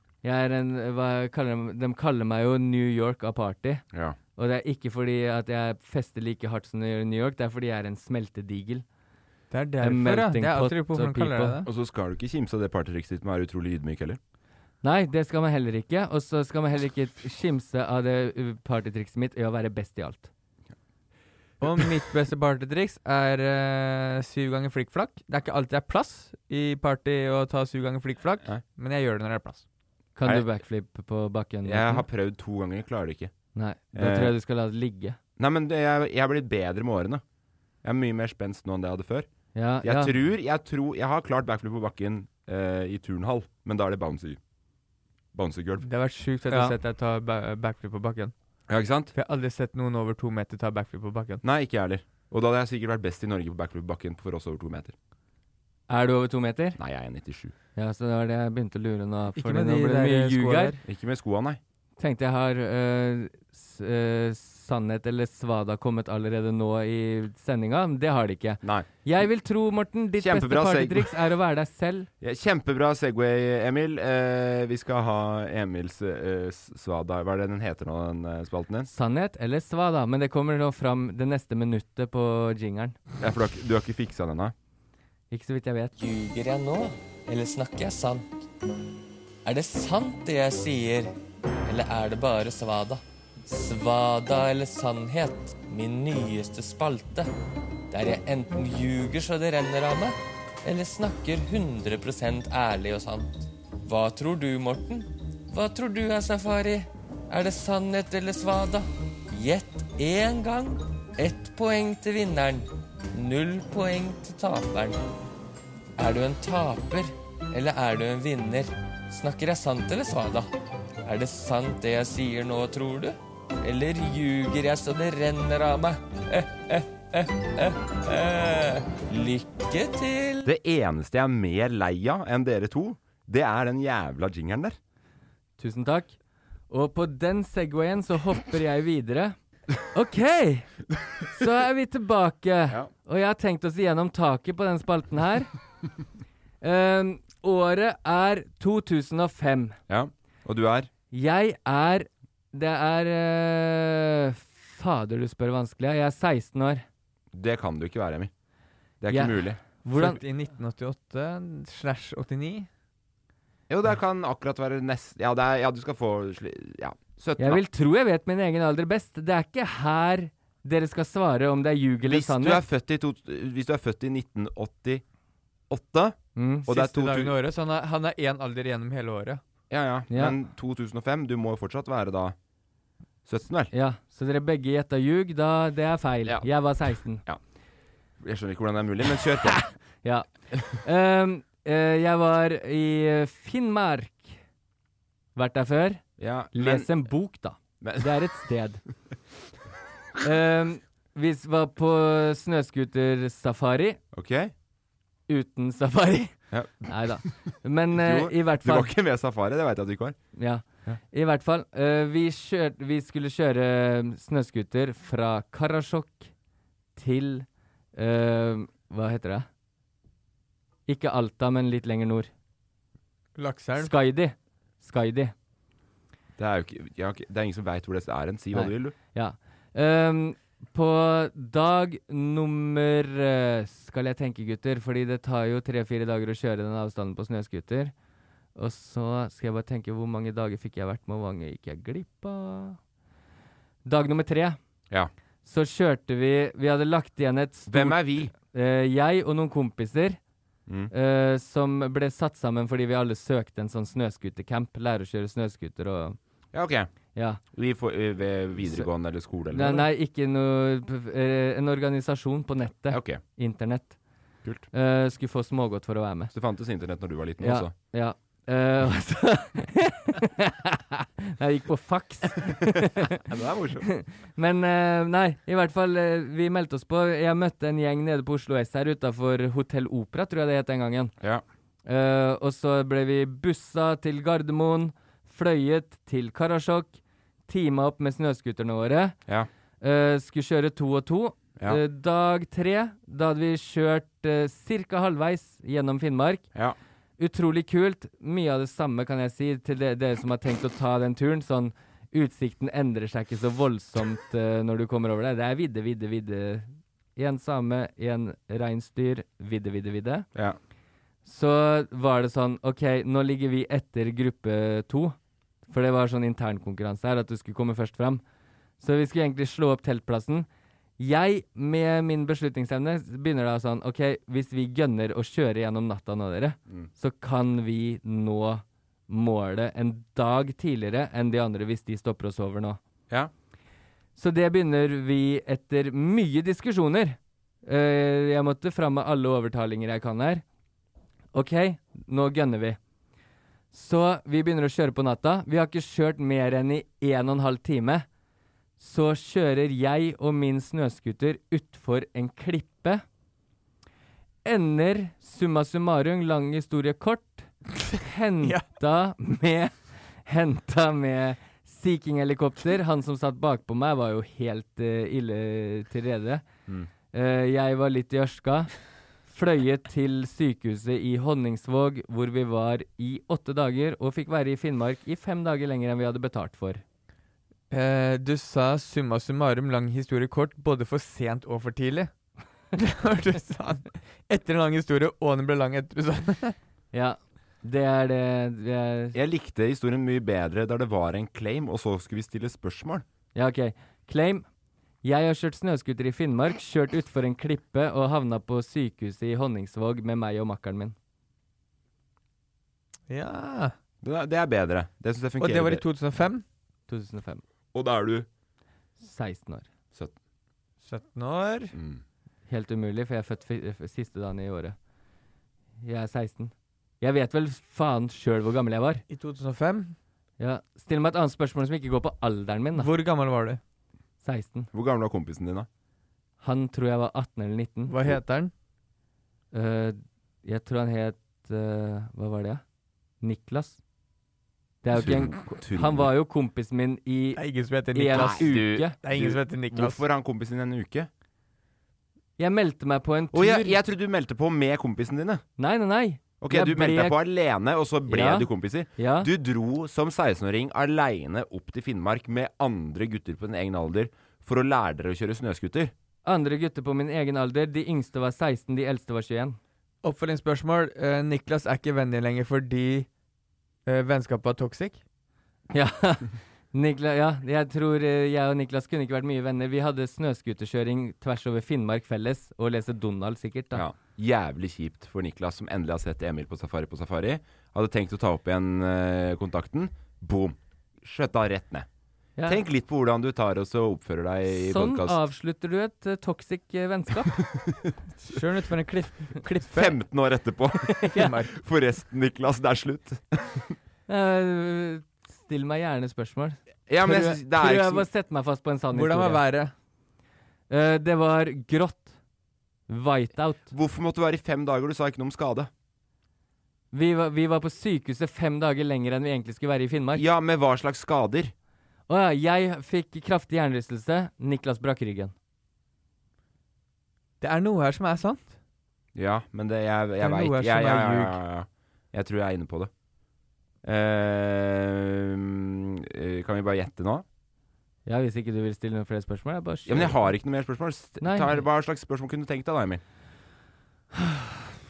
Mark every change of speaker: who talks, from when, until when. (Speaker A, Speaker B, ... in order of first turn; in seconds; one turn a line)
Speaker A: 0.2-3.9
Speaker A: 4.4-8.8
Speaker B: 9.5-11.7
Speaker A: 9.8-11.6
Speaker C: 11.7-14.2
Speaker A: 14.8-20.3
Speaker B: 21.6-29.6
Speaker A: 30.2-32.0
Speaker C: 31.6-33.3
Speaker A: 33.5-35.2
Speaker C: 33.9-34.4
Speaker C: 35.4-37.2
Speaker C: 37.8-39.3
Speaker A: 39.5-40.1
Speaker C: 39.8-44.4
Speaker C: 45.3-45.9
Speaker B: 45.8-48.3
Speaker C: 48.7-49.1
Speaker B: 49.1-51.4
Speaker C: 51.4-55.0
Speaker A: 55.9-56.8
Speaker C: 56.8-57.5
Speaker A: 57.8-60.8
Speaker B: 59.4-60.8
Speaker C: 60.9-61.6
Speaker A: 62.0-72.1
Speaker C: 70.2-71.1
Speaker C: 72.2-78.9
Speaker A: 78.9-83.0
Speaker C: 83.2-84.5
Speaker A: 85.3-85.9
Speaker D: 86.0-88.3
Speaker D: 89.5-91.1
Speaker D: 91.6-97.3
Speaker D: 97.9-115.0
Speaker D: 116.0-120.5
Speaker D: 121.0-130.5
Speaker C: 130.4-134.8
Speaker A: 135.6-136.2
Speaker A: 136.7-139.4
Speaker A: 139.9-140.7
Speaker A: 141.3-145.5
Speaker A: 146.6-149.8
Speaker C: 149.9-150.9
Speaker A: 151.1-156.8
Speaker C: 157.3-158.3
Speaker C: 159.0-159.6
Speaker A: 159.1-160.2
Speaker B: 159.9-162.7
Speaker C: 163.7-167.6
Speaker A: 167.4-172.6
Speaker C: 172.1-175.0
Speaker C: 175.7-177.3
Speaker A: 176.4-176.7
Speaker B: 176.7-179.4
Speaker C: 179.7-182.4
Speaker A: 180.1-180.4
Speaker C: 183.3-183.7
Speaker A: 183.7-187.2
Speaker C: 187.1-187.4
Speaker C: 188.2-189.6
Speaker A: 189.4-194.4
Speaker A: 195.3-198.8
Speaker C: 196.2-196.9
Speaker C: 197.8-198.1
Speaker A: 200.2-204.0
Speaker C: 204.1-204.5
Speaker A: 205.3-208.9
Speaker C: 206.5-207.3
Speaker C: 207.9-210.2
Speaker A: 210.3-216.3
Speaker A: 217.0-219.5
Speaker A: 220.9-222.3
Speaker B: 223.4-223.9
Speaker A: 223.8-225.3
Speaker C: 226.4-228.9
Speaker A: 228.5-237.9
Speaker A: 238.6-242.8
Speaker A: 243.8-244.6
Speaker A: 245.4-250.2
Speaker C: 247.7-248.3
Speaker C: 250.7-250.9
Speaker A: 250.9-256.2
Speaker C: 256.5-256.9
Speaker A: 257.1-257.4
Speaker C: 257.5-259.9
Speaker A: 259.5-264.0
Speaker C: 262.9-263.2
Speaker A: 264.7-266.3
Speaker C: 266.3-267.7
Speaker A: 267.4-273.2
Speaker C: 273.0-273.9
Speaker A: 273.9-281.1
Speaker A: 281.9-289.2
Speaker A: 289.8-296.5
Speaker A: 297.2-310.3
Speaker A: 311.2-315.2
Speaker A: 315.7-318.2
Speaker A: 318.8-320.5
Speaker A: 321.0-332.8
Speaker A: 334.2-340.4
Speaker A: 341.3-342.8
Speaker A: 343.7-348.1
Speaker A: 348.8-353.0
Speaker A: 354.4-359.7
Speaker A: 360.2-366.5
Speaker A: 367.1-368.7
Speaker A: 369.3-376.8
Speaker B: 377.7-382.1
Speaker B: 382.7-386.6
Speaker A: 386.9-389.2
Speaker C: 389.1-393.1
Speaker A: 393.4-394.4
Speaker A: 395.0-400.9
Speaker B: 403.1-403.7
Speaker C: 404.0-405.9
Speaker B: 405.4-406.4
Speaker A: 406.9-407.4
Speaker C: 407.7-408.3
Speaker A: 409.0-409.7
Speaker B: 410.8-411.7
Speaker C: 411.7-412.0
Speaker A: 412.5-414.8
Speaker A: 415.8-419.0
Speaker B: 419.1-419.9
Speaker A: 420.4-422.9
Speaker B: 422.8-423.6
Speaker A: 424.2-424.7
Speaker C: 424.7-425.7
Speaker A: 426.4-427.9
Speaker B: 427.9-428.5
Speaker A: 429.5-432.6
Speaker A: 433.2-433.8
Speaker A: 434.8-439.0
Speaker C: 434.9-436.1
Speaker B: 437.4-440.0
Speaker C: 438.1-441.1
Speaker A: 442.4-443.8
Speaker C: 443.3-445.4
Speaker A: 445.6-447.2
Speaker C: 446.4-455.9
Speaker A: 448.1-449.3
Speaker A: 456.2-459.6
Speaker B: 460.0-463.1
Speaker B: 463.9-465.0
Speaker A: 465.7-473.9
Speaker C: 473.7-481.9
Speaker C: 482.5-485.2
Speaker A: 484.5-487.4
Speaker C: 487.4-487.9
Speaker B: 488.2-490.0
Speaker C: 489.7-493.7
Speaker A: 491.0-491.3
Speaker B: 491.1-491.5
Speaker A: 494.1-499.4
Speaker C: 496.9-498.1
Speaker B: 498.9-499.7
Speaker A: 500.7-502.1
Speaker A: 502.9-503.7
Speaker C: 503.7-505.7
Speaker A: 506.9-510.2
Speaker C: 510.1-511.5
Speaker A: 512.1-515.3
Speaker B: 517.4-518.6
Speaker C: 519.1-522.9
Speaker B: 520.2-521.4
Speaker C: 523.8-527.2
Speaker A: 528.1-530.3
Speaker C: 529.9-533.0
Speaker A: 531.2-531.6
Speaker A: 534.1-534.7